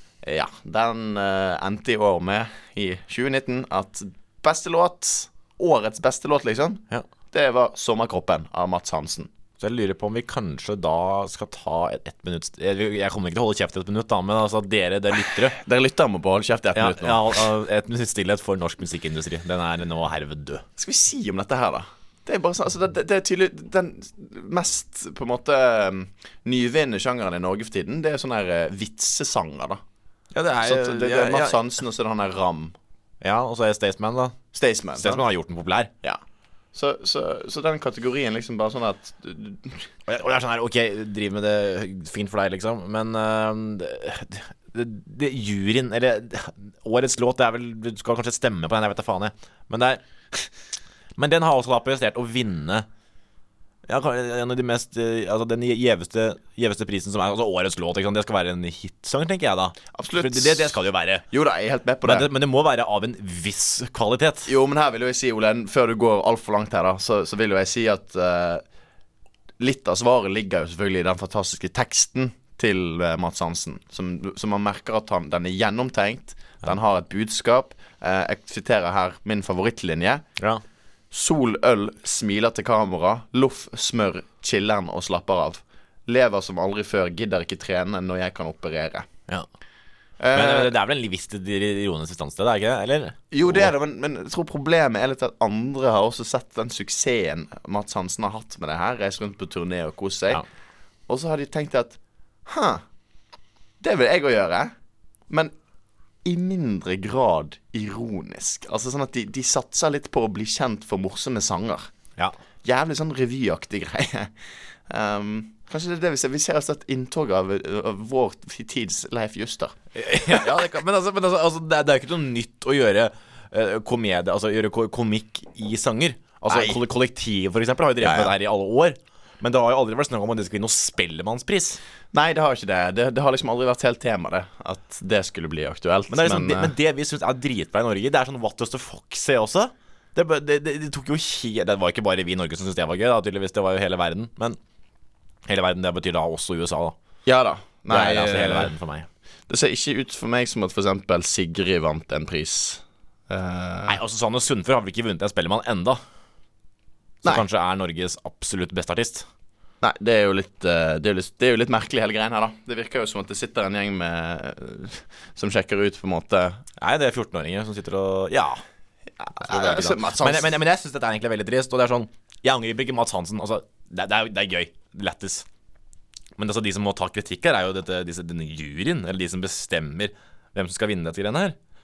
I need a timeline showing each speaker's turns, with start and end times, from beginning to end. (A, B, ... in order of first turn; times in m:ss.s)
0:00.2-0:09.3 A
0:09.6-0:15.6 B
0:15.5-0:17.4 A
0:16.8-0:20.6 B
0:20.8-0:29.8 A
0:30.3-0:31.6 B
0:30.6-0:32.8 A
0:33.2-0:34.4 B
0:34.5-0:35.2 A
0:35.0-0:35.9 B
0:36.7-0:39.9 A
0:40.1-0:50.5 B
0:51.2-0:52.9 B
0:53.9-1:01.3 B
0:59.9-1:00.8 A
1:01.3-1:02.3 A
1:02.0-1:04.5 B
1:04.5-1:08.6 A
1:09.6-1:20.2 A
1:21.1-1:29.1 A
1:30.2-1:30.7 A
1:30.3-1:33.7 B
1:33.3-1:40.4 A
1:41.1-1:42.8 A
1:43.8-1:44.7 A
1:46.2-1:51.9 A
1:52.6-1:54.3 A
1:54.9-1:59.8 A
2:00.0-2:11.8 B
2:06.5-2:06.8 A
2:08.0-2:08.3 A
2:12.1-2:16.7 A
2:16.1-2:24.6 B
2:25.5-2:27.0 B
2:27.3-2:28.7 A
2:27.9-2:29.1 B
2:29.5-2:34.0 A
2:33.9-2:36.0 B
2:37.2-2:39.3 B
2:39.8-2:46.6 A
2:46.8-2:48.6 B
2:49.2-2:50.6 A
2:49.4-2:55.5 B
2:56.4-3:01.6 B